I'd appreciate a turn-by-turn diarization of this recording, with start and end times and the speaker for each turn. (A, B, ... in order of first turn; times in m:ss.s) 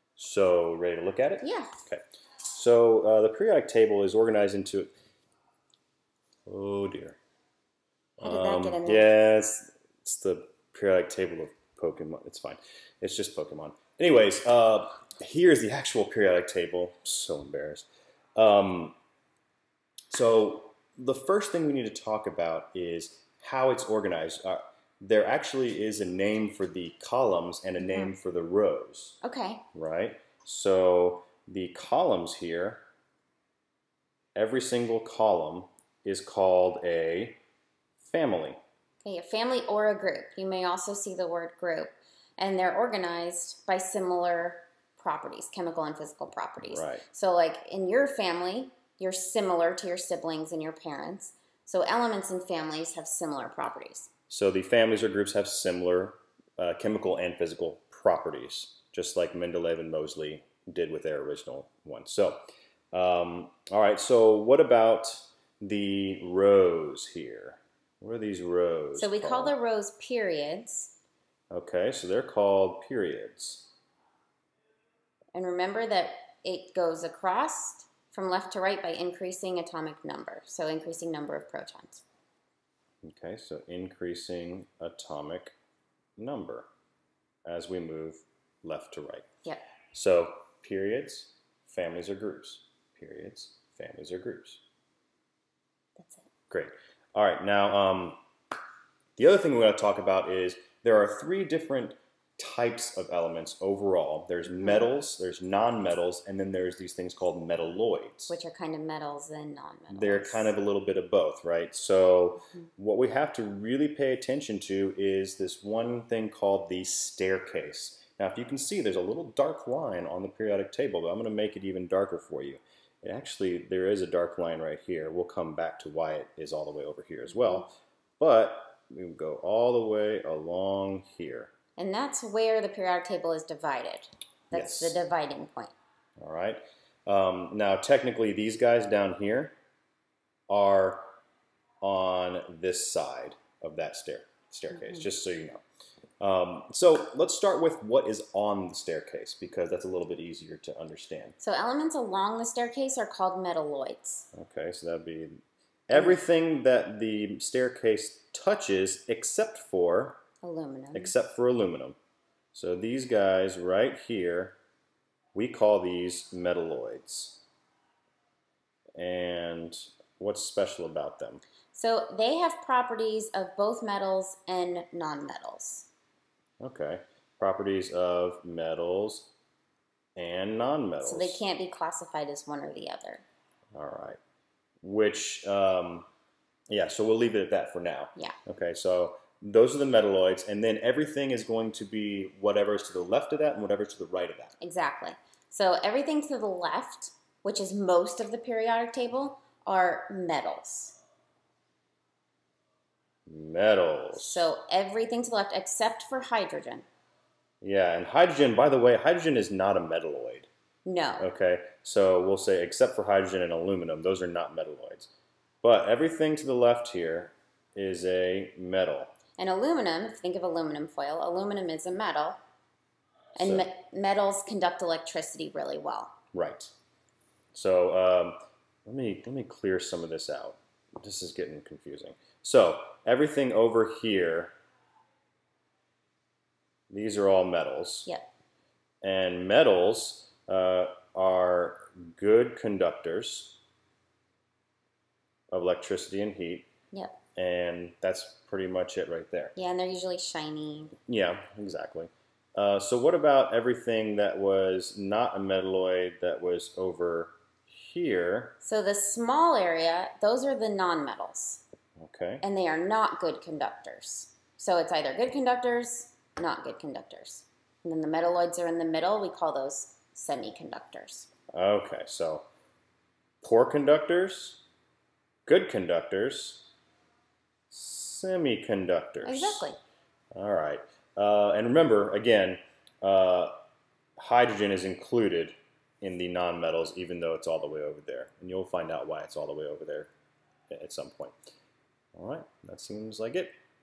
0:00.2-0:04.9 A
0:01.4-0:01.8 B
0:06.5-0:07.2 A
0:08.2-0:19.0 A
0:08.2-0:09.1 B
0:20.1-0:29.2 A
0:27.8-0:28.1 B
0:29.2-0:29.7 B
0:29.7-0:32.8 A
0:34.4-0:37.4 A
0:38.0-0:38.6 A
0:39.0-0:54.1 B
0:46.6-0:47.0 A
0:54.3-1:09.6 A
1:09.0-1:10.9 B
1:11.5-1:13.7 A
1:15.3-1:22.0 B
1:23.0-1:25.6 A
1:26.2-1:26.7 A
1:27.4-1:29.3 A
1:29.9-1:34.6 A
1:36.0-1:36.3 B
1:36.5-1:38.2 A
1:39.2-1:48.4 A
1:44.6-1:44.9 B
1:48.3-1:50.5 B
1:49.9-2:11.5 A
2:07.3-2:07.6 B
2:11.8-2:15.7 B
2:14.5-2:15.1 A
2:16.2-2:19.6 A
2:20.5-2:21.1 A
2:21.8-2:25.6 A
2:24.7-2:25.1 B
2:26.2-2:31.4 A
2:31.4-2:34.3 B
2:34.3-2:40.2 A
2:35.9-2:36.2 B
2:40.4-2:41.1 B
2:40.9-2:42.0 A
2:42.5-2:44.6 A
2:45.3-2:47.4 A
2:49.0-2:51.4 A
2:51.7-2:55.9 B
2:56.6-2:59.3 A
3:00.2-3:01.4 A
3:01.0-3:03.2 B
3:03.7-3:04.2 A
3:04.8-3:06.1 A
3:06.7-3:14.6 A
3:14.6-3:21.0 B
3:23.3-3:24.5 A
3:24.2-3:26.9 B
3:27.6-3:30.5 A
3:30.8-3:31.2 B
3:31.2-3:35.1 A
3:35.6-3:39.1 A
3:39.4-3:42.4 B
3:43.4-3:46.1 B
3:43.4-3:43.7 A
3:46.3-3:46.7 A
3:47.5-3:54.6 A
3:56.9-3:58.1 A
3:59.0-4:03.6 A
4:05.5-4:06.7 A
4:06.9-4:07.2 B
4:07.4-4:09.5 A
4:09.6-4:11.0 B
4:11.0-4:18.6 A
4:18.6-4:21.6 B
4:22.0-4:22.4 A
4:22.4-4:31.3 B
4:31.5-4:32.5 A
4:33.4-4:34.6 A
4:35.5-4:36.7 A
4:37.7-4:39.7 A
4:39.2-4:39.8 B
4:40.3-4:43.6 A
4:44.2-4:50.1 A
4:50.7-4:51.4 A
4:52.2-4:53.5 A